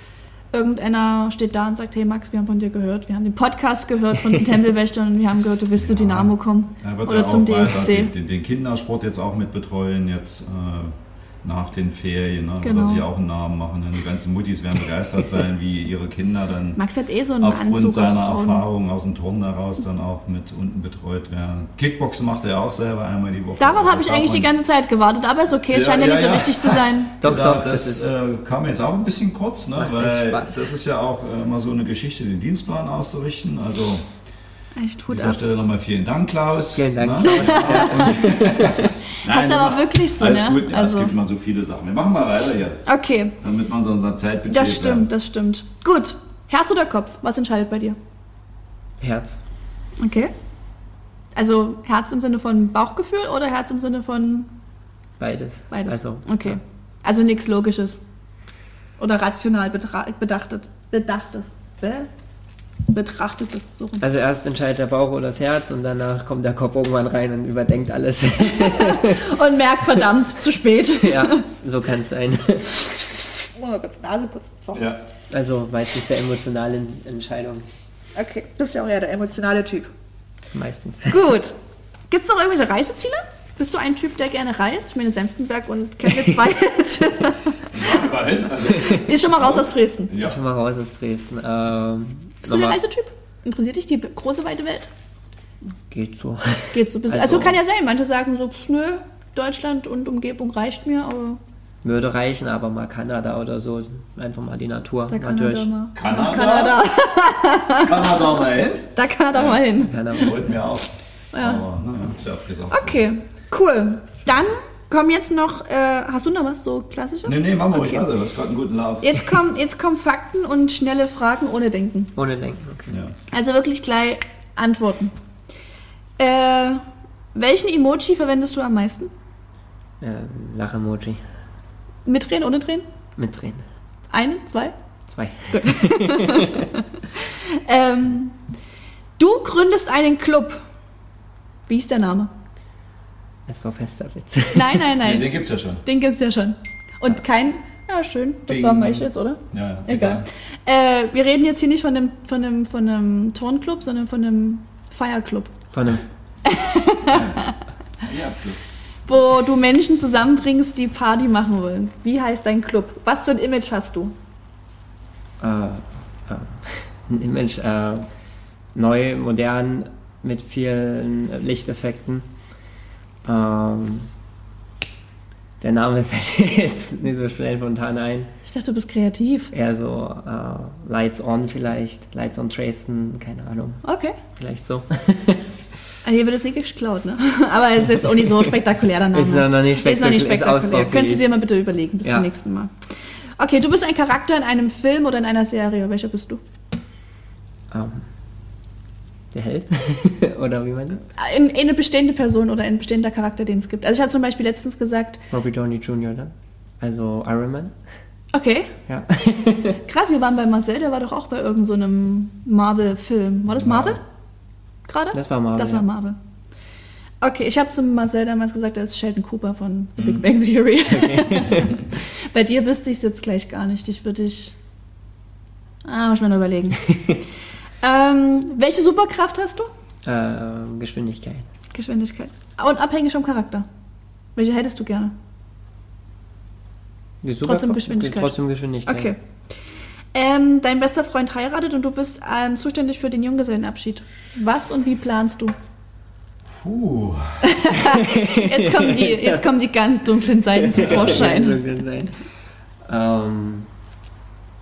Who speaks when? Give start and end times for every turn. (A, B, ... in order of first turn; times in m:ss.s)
0:00.5-0:08.1 A
0:05.8-0:16.8 B
0:12.6-0:13.0 A
0:16.8-0:18.6 A
0:17.4-0:24.5 B
0:23.6-0:27.2 A
0:25.7-0:34.1 B
0:27.2-0:28.1 C
0:29.8-0:30.7 C
0:34.8-0:35.4 A
0:35.1-0:42.8 B
0:36.8-0:38.9 C
0:37.2-0:38.3 A
0:39.2-0:41.1 A
0:42.8-0:43.4 A
0:43.4-0:45.1 B
0:44.5-0:48.0 A
0:49.0-0:49.4 C
0:50.0-0:50.3 A
0:51.4-0:54.5 A
0:55.2-0:56.6 C
0:55.7-0:58.0 A
0:59.0-1:02.1 A
1:02.9-1:04.0 A
1:04.0-1:09.4 C
1:08.6-1:11.4 A
1:11.0-1:13.0 C
1:13.6-1:14.8 A
1:14.7-1:15.0 B
1:15.3-1:17.7 C
1:18.2-1:19.9 A
1:20.5-1:21.3 C
1:21.1-1:21.6 A
1:22.1-1:28.1 A
1:27.7-1:30.4 B
1:28.7-1:30.1 A
1:30.2-1:32.8 C
1:32.4-1:34.9 A
1:35.9-1:37.6 C
1:36.7-1:41.4 A
1:41.8-1:45.7 C
1:45.1-1:48.2 A
1:46.0-1:46.8 B
1:47.8-1:53.0 B
1:49.0-1:50.3 A
1:49.8-1:50.5 C
1:51.3-1:51.6 A
1:52.7-1:58.1 A
1:57.2-1:59.2 B
1:59.0-2:02.1 A
2:02.2-2:03.0 C
2:02.9-2:03.2 B
2:03.3-2:05.1 A
2:06.2-2:06.8 A
2:07.4-2:09.1 A
2:10.0-2:11.2 C
2:12.1-2:12.8 A
2:13.2-2:13.6 C
2:14.1-2:14.8 A
2:15.1-2:16.7 C
2:15.5-2:18.4 A
2:19.2-2:20.6 A
2:21.7-2:22.3 A
2:23.5-2:24.9 C
2:24.5-2:35.5 A
2:25.0-2:25.8 B
2:28.5-2:30.3 B
2:35.7-2:36.0 C
2:36.4-2:37.6 A
2:37.1-2:38.6 B
2:39.1-2:44.1 A
2:45.4-2:48.1 C
2:48.8-2:52.3 C
2:53.2-2:54.1 C
2:55.6-2:58.3 C
2:58.5-2:59.5 A
2:59.5-3:05.5 C
3:03.8-3:04.2 A
3:06.0-3:12.7 A
3:09.1-3:11.3 C
3:13.4-3:16.4 A
3:17.7-3:18.0 C
3:19.3-3:21.0 C
3:21.2-3:25.2 A
3:25.3-3:27.7 C
3:28.3-3:28.8 A
3:28.9-3:29.8 C
3:29.6-3:34.0 A
3:33.6-3:34.0 B
3:34.9-3:36.2 A
3:35.1-3:35.8 C
3:37.2-3:44.6 A
3:40.8-3:41.8 C
3:45.8-3:47.0 A
3:47.8-3:49.7 A
3:50.0-3:51.5 C
3:51.7-3:53.7 A
3:54.4-3:55.1 A
3:57.2-3:59.1 C
3:57.4-3:58.3 A
3:58.9-3:59.2 A
4:00.1-4:05.5 A
4:06.6-4:07.4 B
4:07.4-4:11.7 A
4:07.7-4:09.5 C
4:10.5-4:12.1 C
4:10.8-4:11.2 B
4:12.9-4:13.7 C